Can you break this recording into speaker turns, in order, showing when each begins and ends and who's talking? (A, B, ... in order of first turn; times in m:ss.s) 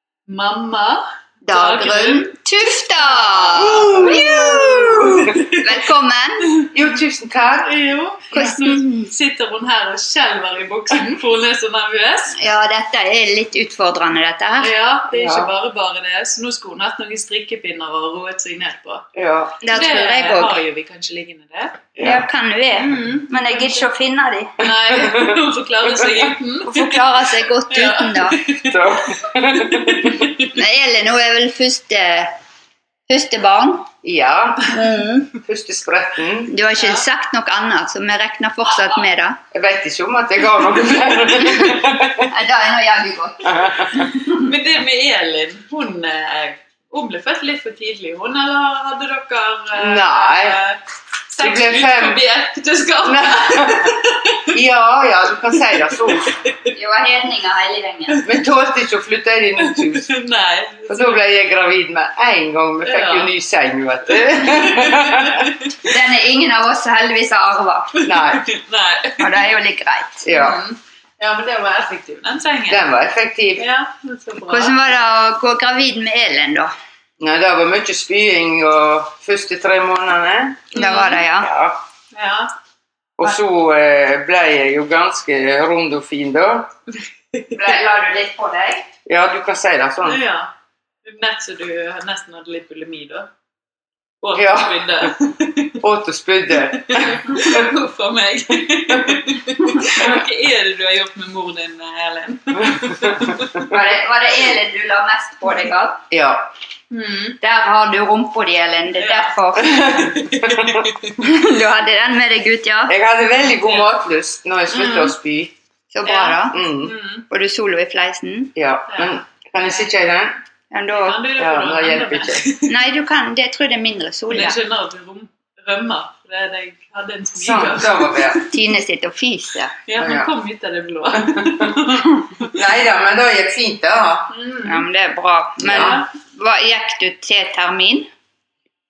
0:00.3-0:02.4 A
0:01.4-0:06.5 B
0:02.9-0:05.6 A
0:03.7-0:04.3 C
0:05.1-0:05.3 C
0:06.7-0:07.8 C
0:07.6-0:12.4 A
0:08.3-0:09.1 B
0:12.4-0:14.7 B
0:14.6-0:19.1 A
0:15.1-0:15.5 C
0:19.1-0:19.6 C
0:19.6-0:20.6 B
0:19.7-0:21.9 A
0:21.9-0:22.2 C
0:22.0-0:24.6 B
0:22.8-0:23.9 A
0:24.6-0:25.4 C
0:24.6-0:27.0 A
0:25.9-0:26.3 C
0:26.6-0:28.4 B
0:27.7-0:28.8 A
0:28.6-0:30.3 C
0:29.7-0:30.1 A
0:30.5-0:32.4 B
0:33.1-0:33.9 B
0:34.0-0:34.7 C
0:34.7-0:35.3 B
0:35.3-0:36.5 C
0:36.5-0:39.4 B
0:36.8-0:37.0 A
0:39.5-0:42.3 C
0:42.3-0:44.4 B
0:43.4-0:44.1 C
0:44.3-0:54.4 A
0:49.8-0:50.6 C
0:51.4-0:52.2 C
0:53.0-0:54.0 C
0:54.5-0:56.4 C
0:56.7-0:58.3 B
0:58.2-1:00.1 C
0:59.6-1:01.2 A
1:00.9-1:05.5 C
1:02.8-1:03.3 A
1:04.3-1:05.5 A
1:05.8-1:08.0 B
1:08.0-1:09.3 A
1:08.0-1:08.5 C
1:09.2-1:10.3 B
1:10.2-1:10.6 C
1:10.3-1:12.8 A
1:12.7-1:13.6 C
1:13.6-1:14.9 A
1:14.5-1:16.7 B
1:17.2-1:20.7 C
1:20.7-1:21.5 B
1:20.7-1:21.2 A
1:21.3-1:21.8 C
1:22.1-1:22.5 A
1:23.2-1:26.7 C
1:27.5-1:28.8 B
1:29.0-1:30.2 C
1:30.0-1:30.5 A
1:31.0-1:33.3 A
1:34.2-1:35.8 A
1:34.3-1:35.1 C
1:35.8-1:37.7 C
1:36.7-1:43.4 A
1:38.9-1:39.2 C
1:42.7-1:43.7 C
1:43.6-1:46.0 B
1:46.1-1:46.5 C
1:46.9-1:47.4 A
1:47.4-1:49.9 B
1:49.0-1:49.4 A
1:49.6-1:50.9 C
1:49.9-1:51.1 A
1:51.2-1:52.9 B
1:52.9-1:55.5 C
1:53.4-1:53.9 A
1:54.7-1:55.1 A
1:55.9-1:56.6 B
1:56.0-1:57.2 A
1:56.5-1:56.9 C
1:57.3-1:58.5 B
1:58.5-2:00.4 C
1:58.9-1:59.2 A
2:00.7-2:01.2 B
2:00.9-2:02.7 A
2:01.3-2:02.5 C
2:02.7-2:04.6 B
2:04.3-2:08.4 A
2:07.3-2:08.4 C
2:08.5-2:09.7 B
2:09.9-2:12.5 A
2:10.0-2:10.3 C
2:11.3-2:11.7 C
2:12.5-2:14.3 C
2:14.3-2:14.8 A
2:14.6-2:18.1 B
2:15.6-2:16.0 C
2:15.7-2:16.0 A